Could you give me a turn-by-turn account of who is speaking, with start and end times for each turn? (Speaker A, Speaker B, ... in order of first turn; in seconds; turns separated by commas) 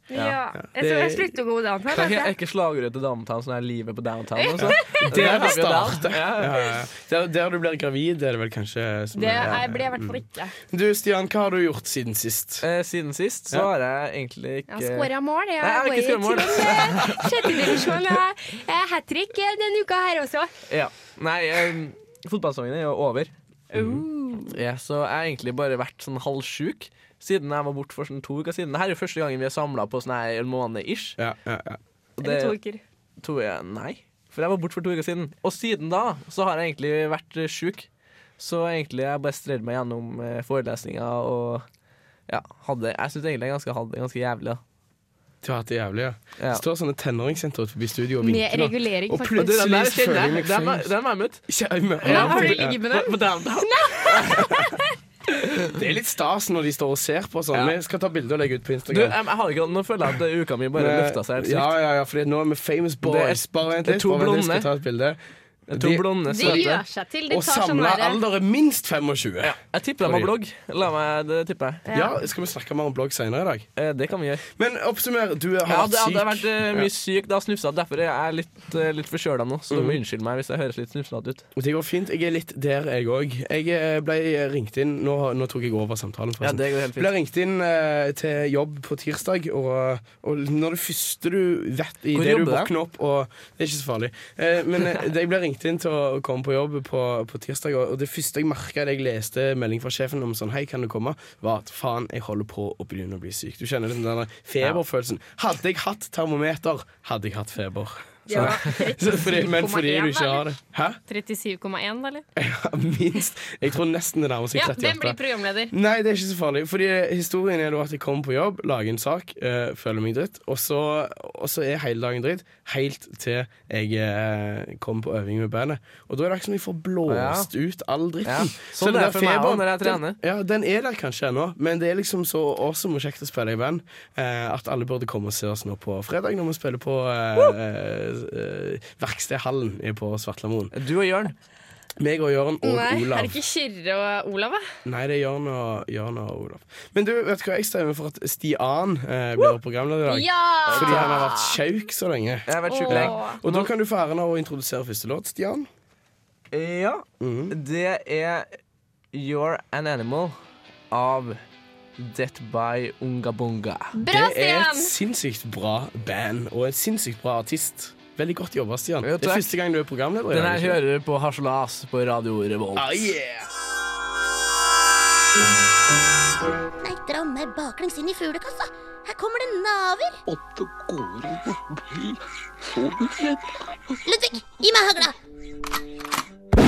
Speaker A: 0.1-2.3, Speaker B: 0.7-1.3, Speaker C: 1.9-6.6, Speaker A: 4.4-5.1, Speaker B: 4.6-10.1, Speaker A: 9.2-10.6, Speaker B: 10.7-12.7, Speaker C: 12.6-15.1, Speaker A: 14.7-20.5, Speaker C: 15.6-17.9, Speaker C: 20.7-23.3, Speaker B: 23.7-24.1, Speaker A: 23.8-24.5, Speaker C: 23.8-31.2, Speaker B: 31.2-31.8, Speaker C: 32.2-32.5, Speaker A: 32.2-32.8, Speaker C: 33.2-37.9, Speaker C: 38.4-41.6, Speaker C: 42.3-44.6, Speaker B: 45.4-50.9, Speaker C: 46.4-46.6, Speaker A: 48.2-49.5, Speaker C: 49.4-51.4, Speaker B: 51.5-52.8, Speaker C: 52.0-54.4, Speaker A: 52.1-54.9, Speaker B: 54.2-54.7, Speaker C: 55.4-55.7, Speaker B: 55.7-59.2, Speaker C: 58.9-61.7, Speaker B: 60.8-65.2, Speaker C: 63.0-64.7, Speaker C: 65.7-66.8, Speaker B: 65.7-66.7, Speaker A: 66.3-68.2, Speaker B: 67.3-70.3, Speaker C: 69.4-71.8, Speaker A: 71.9-72.2, Speaker B: 71.9-73.7, Speaker C: 73.8-74.5, Speaker B: 74.6-76.9, Speaker C: 75.7-81.5, Speaker B: 79.7-80.0, Speaker B: 81.6-111.0, Speaker C: 86.4-87.1, Speaker C: 92.1-92.7, Speaker A: 108.3-110.5, Speaker A: 111.1-112.2, Speaker B: 112.4-115.2, Speaker A: 114.5-115.7, Speaker B: 115.7-140.7, Speaker C: 127.1-127.5, Speaker C: 128.2-130.2, Speaker C: 140.7-141.3, Speaker B: 142.0-143.4, Speaker A: 142.6-144.7, Speaker B: 144.8-155.7, Speaker A: 150.1-151.6, Speaker C: 150.7-151.1, Speaker C: 152.5-153.7, Speaker A: 152.7-153.4, Speaker C: 156.5-158.6, Speaker B: 157.2-157.6, Speaker C: 159.1-160.3, Speaker C: 160.9-161.4, Speaker C: 162.0-163.9, Speaker A: 163.9-165.0, Speaker B: 164.1-170.8, Speaker C: 169.0-169.5, Speaker C: 170.3-173.1, Speaker B: 172.8-173.5, Speaker D: 176.8-180.2, Speaker E: 180.3-184.0, Speaker D: 184.1-185.2